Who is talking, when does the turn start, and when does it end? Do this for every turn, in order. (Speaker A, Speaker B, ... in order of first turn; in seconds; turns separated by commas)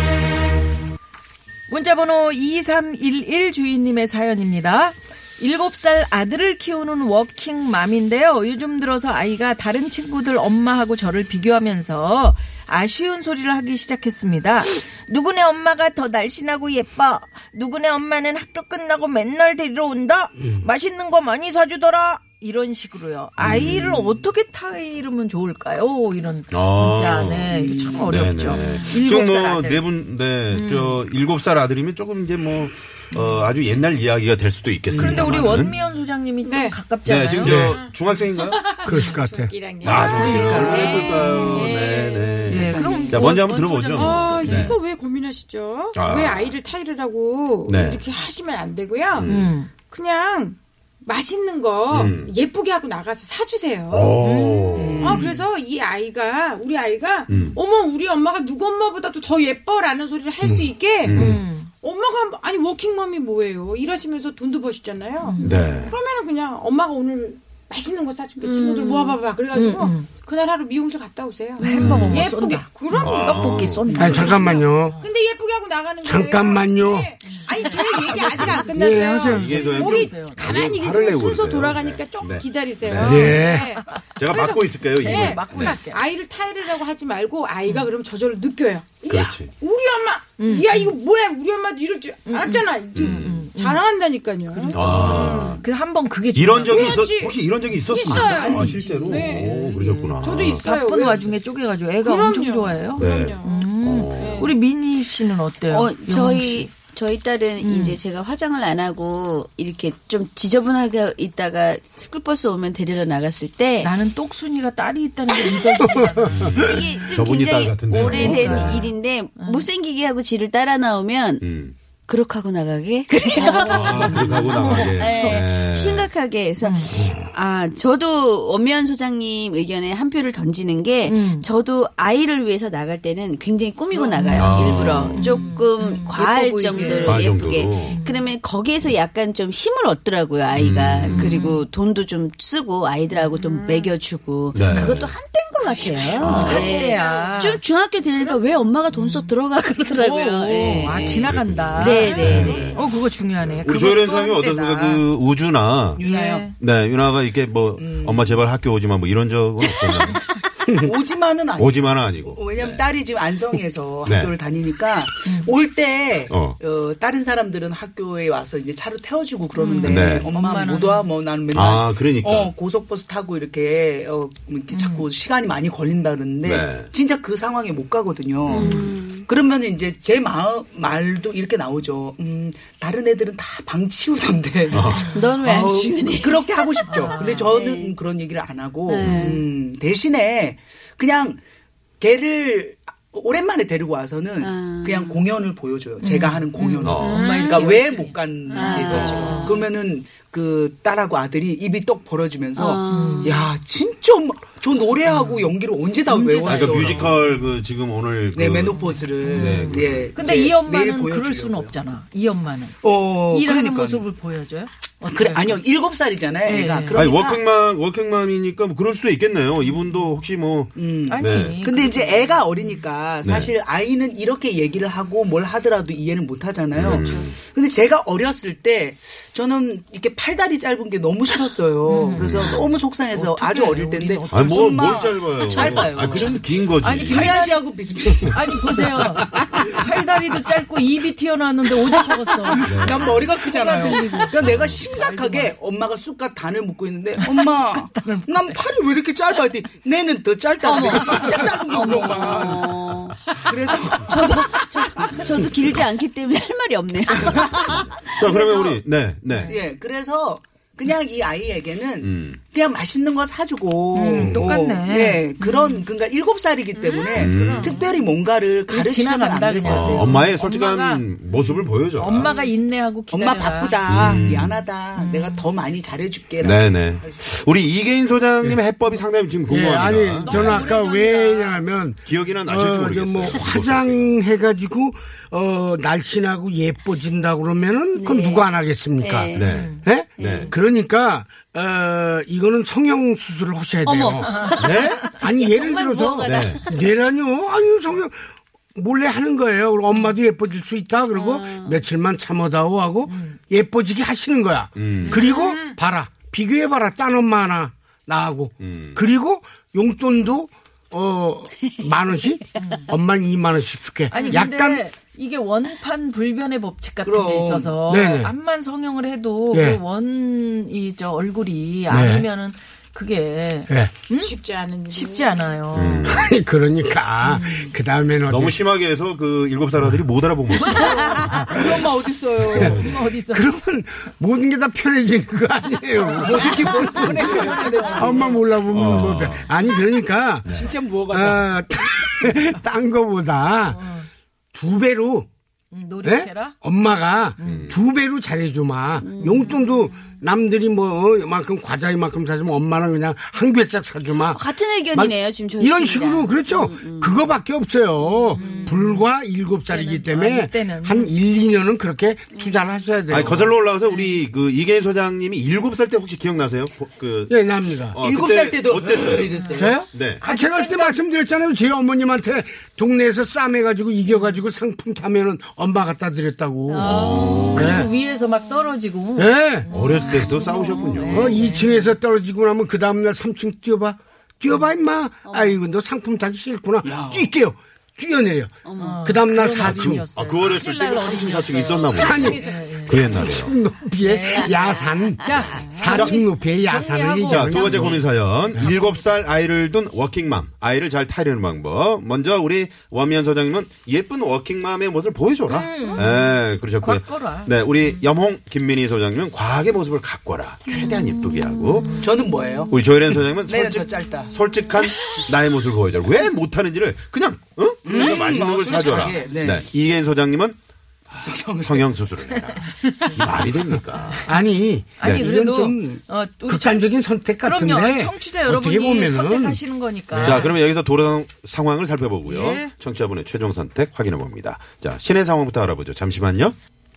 Speaker A: 1.7-29.9, Speaker B: 23.4-24.0, Speaker B: 26.5-27.5, Speaker C: 27.5-28.1, Speaker B: 28.1-35.8, Speaker A: 30.5-31.0, Speaker C: 34.9-35.3, Speaker A: 34.9-37.7, Speaker D: 36.4-36.8, Speaker B: 37.0-38.7, Speaker E: 37.5-37.8, Speaker D: 37.7-43.1, Speaker E: 38.8-39.5, Speaker B: 39.8-44.8, Speaker A: 39.9-41.3, Speaker C: 42.4-43.3, Speaker A: 42.5-44.7, Speaker D: 43.9-54.2, Speaker B: 45.9-46.6, Speaker B: 47.7-48.0, Speaker B: 49.1-49.5, Speaker A: 49.2-49.7, Speaker B: 51.9-52.3, Speaker B: 53.9-55.1, Speaker A: 54.2-55.2, Speaker C: 54.8-55.4, Speaker D: 54.8-95.5, Speaker B: 57.3-57.6, Speaker E: 60.4-61.4, Speaker B: 61.0-61.4, Speaker A: 61.1-61.7, Speaker A: 65.2-65.7, Speaker B: 65.4-65.9, Speaker A: 68.4-70.1, Speaker A: 71.6-75.1, Speaker B: 71.8-72.3, Speaker B: 73.0-74.3, Speaker C: 73.8-74.2, Speaker E: 73.9-75.0, Speaker E: 76.0-77.1, Speaker A: 77.2-80.4, Speaker E: 78.3-79.5, Speaker B: 79.2-83.4, Speaker E: 83.0-83.7, Speaker A: 83.0-83.6, Speaker B: 84.1-85.8, Speaker A: 84.9-86.0, Speaker B: 89.0-89.5, Speaker A: 90.4-91.0, Speaker A: 92.2-93.8, Speaker B: 92.9-93.5, Speaker A: 94.5-97.0, Speaker B: 94.7-95.6, Speaker B: 96.3-100.6, Speaker D: 96.7-101.4, Speaker A: 98.1-98.7, Speaker A: 99.7-106.7, Speaker D: 102.0-104.5, Speaker B: 103.0-104.5, Speaker F: 105.7-113.9, Speaker A: 107.6-108.0, Speaker A: 113.8-116.8, Speaker B: 116.3-118.9, Speaker F: 116.6-121.5, Speaker A: 117.9-119.7, Speaker B: 121.4-121.7, Speaker F: 122.1-152.7, Speaker B: 123.5-126.1, Speaker A: 124.5-125.0, Speaker A: 126.6-127.0, Speaker A: 131.1-131.5, Speaker A: 134.1-137.2, Speaker B: 134.3-135.3, Speaker C: 136.2-137.0, Speaker B: 137.0-138.0, Speaker A: 137.8-138.2, Speaker B: 140.5-141.4, Speaker A: 141.1-141.6, Speaker B: 144.5-145.1, Speaker B: 146.2-146.7, Speaker A: 146.3-147.6, Speaker C: 146.4-146.7, Speaker A: 148.9-149.3, Speaker A: 149.9-155.0, Speaker B: 150.6-152.8, Speaker C: 152.3-152.7, Speaker B: 153.3-160.2, Speaker C: 155.9-156.5, Speaker A: 156.0-156.5, Speaker C: 157.8-158.5, Speaker F: 159.8-160.3, Speaker C: 160.7-191.4, Speaker B: 161.6-163.0, Speaker B: 164.0-164.3, Speaker B: 166.3-166.6, Speaker A: 169.5-171.1, Speaker B: 169.8-170.3, Speaker B: 171.5-172.5, Speaker A: 174.7-175.1, Speaker B: 176.4-176.9, Speaker F: 178.5-179.3, Speaker B: 184.7-185.1, Speaker A: 184.9-185.2, Speaker F: 185.1-188.0, Speaker A: 186.9-187.5, Speaker F: 188.8-189.5, Speaker B: 189.0-189.3, Speaker C: 192.0-207.2, Speaker F: 194.4-195.3, Speaker A: 196.0-199.6, Speaker B: 196.8-197.3, Speaker F: 197.2-197.8, Speaker F: 198.5-199.6, Speaker F: 202.5-203.5, Speaker A: 202.9-203.5, Speaker A: 205.1-205.5, Speaker A: 206.1-207.2, Speaker B: 206.4-210.2, Speaker C: 208.3-211.8, Speaker A: 208.8-215.6, Speaker C: 212.8-214.1, Speaker C: 215.1-217.4, Speaker A: 216.4-217.0, Speaker B: 216.9-221.6, Speaker A: 219.7-220.0, Speaker C: 220.8-239.7, Speaker A: 221.1-222.5, Speaker B: 223.2-223.5, Speaker B: 226.7-227.4, Speaker A: 231.8-232.3, Speaker B: 232.1-232.7, Speaker A: 233.1-235.0, Speaker B: 234.3-237.4, Speaker A: 235.6-244.3, Speaker C: 241.9-252.8, Speaker B: 242.6-243.4, Speaker B: 244.3-244.8, Speaker A: 244.9-245.5, Speaker A: 247.2-248.7, Speaker F: 250.6-253.3, Speaker C: 253.3-255.3, Speaker F: 254.0-258.3, Speaker C: 257.1-257.8, Speaker B: 258.0-259.6, Speaker C: 258.3-258.8, Speaker A: 259.3-259.6, Speaker C: 259.5-270.3, Speaker B: 262.0-262.4, Speaker A: 263.9-265.8, Speaker D: 266.7-267.8, Speaker B: 267.1-267.7, Speaker A: 268.7-271.1, Speaker B: 269.6-272.4, Speaker A: 271.9-274.0, Speaker C: 273.1-277.4, Speaker B: 273.9-274.6, Speaker A: 275.0-275.4, Speaker B: 276.4-280.7, Speaker E: 279.5-294.5, Speaker A: 280.2-281.6, Speaker B: 282.0-284.1, Speaker F: 287.9-288.4, Speaker F: 289.0-289.6, Speaker B: 289.3-290.5, Speaker A: 289.4-290.5, Speaker F: 290.2-290.5, Speaker F: 293.8-296.9, Speaker B: 294.6-295.0, Speaker E: 295.2-298.2, Speaker B: 296.2-296.6, Speaker E: 298.7-314.8, Speaker F: 301.1-301.8, Speaker A: 303.1-303.4, Speaker B: 304.8-305.3, Speaker D: 305.3-305.7, Speaker B: 308.6-309.1, Speaker A: 312.6-312.9, Speaker A: 314.1-324.4, Speaker D: 314.1-314.4, Speaker C: 317.0-317.7, Speaker E: 317.9-318.3, Speaker E: 319.5-319.8, Speaker E: 321.9-322.3, Speaker D: 324.1-325.5, Speaker A: 324.9-326.1, Speaker B: 325.7-326.3, Speaker E: 326.0-328.6, Speaker A: 327.2-327.7, Speaker B: 328.3-331.5, Speaker C: 330.7-332.8, Speaker E: 331.1-331.9, Speaker A: 332.5-333.5, Speaker E: 332.5-343.8, Speaker B: 332.5-333.0, Speaker C: 336.1-338.5, Speaker B: 338.7-339.5, Speaker C: 340.5-341.5, Speaker A: 343.7-344.1, Speaker E: 344.5-345.3, Speaker A: 345.7-346.6, Speaker E: 346.0-363.6, Speaker A: 347.4-347.7, Speaker B: 347.4-347.8, Speaker F: 349.0-349.6, Speaker F: 354.3-357.3, Speaker F: 358.1-358.7, Speaker A: 358.3-359.1, Speaker A: 359.7-361.1, Speaker F: 362.3-362.6, Speaker B: 363.1-370.2, Speaker A: 363.9-364.1, Speaker E: 367.3-368.0, Speaker C: 368.0-369.8, Speaker E: 369.5-377.9, Speaker A: 370.2-371.0, Speaker F: 376.7-377.8, Speaker A: 376.8-381.9, Speaker B: 376.8-377.8, Speaker E: 379.1-379.7, Speaker B: 379.7-381.4, Speaker E: 381.0-390.0, Speaker F: 385.2-385.6, Speaker C: 386.8-387.3, Speaker F: 388.6-389.1, Speaker A: 388.8-393.1, Speaker B: 389.5-393.5, Speaker D: 391.9-393.0, Speaker E: 391.9-398.0, Speaker A: 394.0-399.1, Speaker F: 394.3-395.4, Speaker B: 395.9-396.2, Speaker B: 397.3-412.0, Speaker A: 405.5-407.5, Speaker A: 410.7-411.1, Speaker A: 411.7-412.3, Speaker C: 412.0-414.4, Speaker B: 412.7-420.6, Speaker C: 417.8-419.6, Speaker B: 421.1-424.3, Speaker C: 421.2-421.9, Speaker A: 422.3-423.1, Speaker E: 424.2-429.6, Speaker A: 425.0-430.5, Speaker B: 425.0-425.3, Speaker B: 430.1-436.6, Speaker A: 432.2-432.7